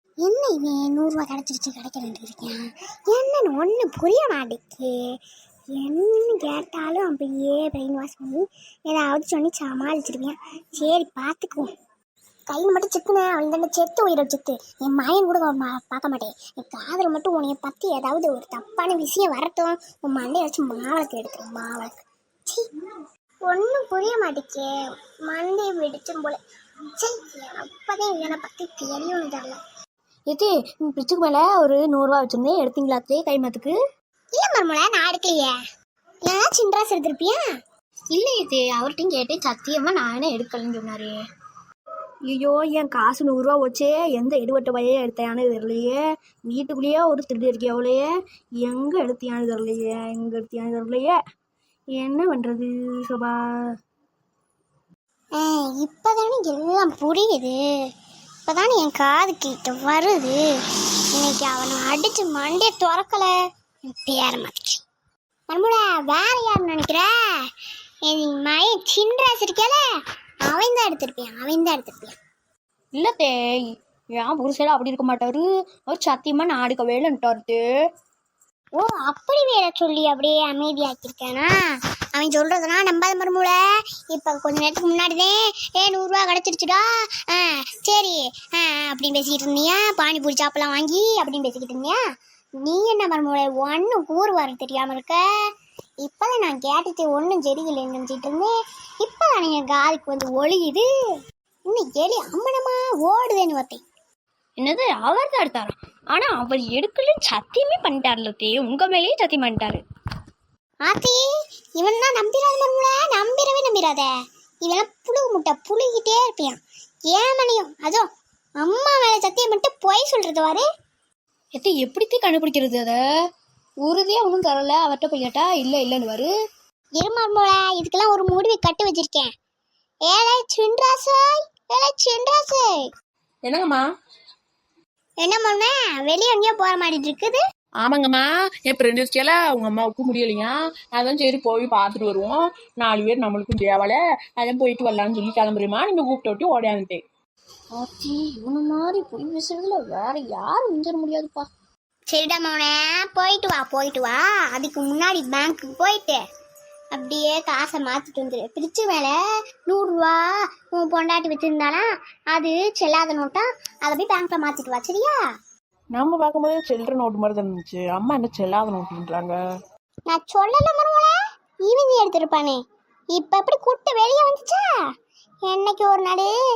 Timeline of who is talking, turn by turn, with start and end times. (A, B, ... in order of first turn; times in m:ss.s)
0:00.2-0:04.9 A
0:05.8-0:11.7 A
0:12.5-0:22.0 A
0:23.5-0:24.7 A
0:25.3-0:26.4 A
0:27.0-0:29.6 A
0:30.3-0:33.8 B
0:34.4-0:35.5 A
0:36.3-0:37.4 A
0:38.1-0:41.1 B
0:42.3-0:48.1 B
0:48.6-0:51.2 B
0:52.0-0:53.4 B
0:55.4-0:57.6 A
0:58.5-1:00.4 A
1:01.2-1:03.3 A
1:03.9-1:04.8 A
1:05.5-1:07.1 A
1:08.1-1:09.8 A
1:10.5-1:12.2 A
1:13.0-1:13.6 B
1:14.2-1:17.6 B
1:18.8-1:21.6 A
1:22.2-1:23.6 A
1:24.1-1:32.0 A
1:32.6-1:35.2 A
1:36.0-1:40.9 A
1:41.7-1:43.8 A
1:44.6-1:49.8 B
1:50.8-1:51.2 A
1:51.8-1:54.1 A
1:54.6-1:58.1 A
1:58.6-2:00.6 A
2:01.6-2:03.0 B
2:03.8-2:06.3 B
2:07.0-2:09.3 A
2:10.1-2:12.7 A
2:13.5-2:13.8 C
2:15.2-2:17.4 A
2:17.8-2:27.0 C
2:27.8-2:31.5 B
2:32.1-2:36.2 A
2:36.9-2:39.1 A
2:39.7-2:45.2 A
2:46.0-2:49.4 C
2:50.1-2:51.2 A
2:51.7-2:52.6 A
2:53.1-2:54.7 A
2:55.4-2:56.3 A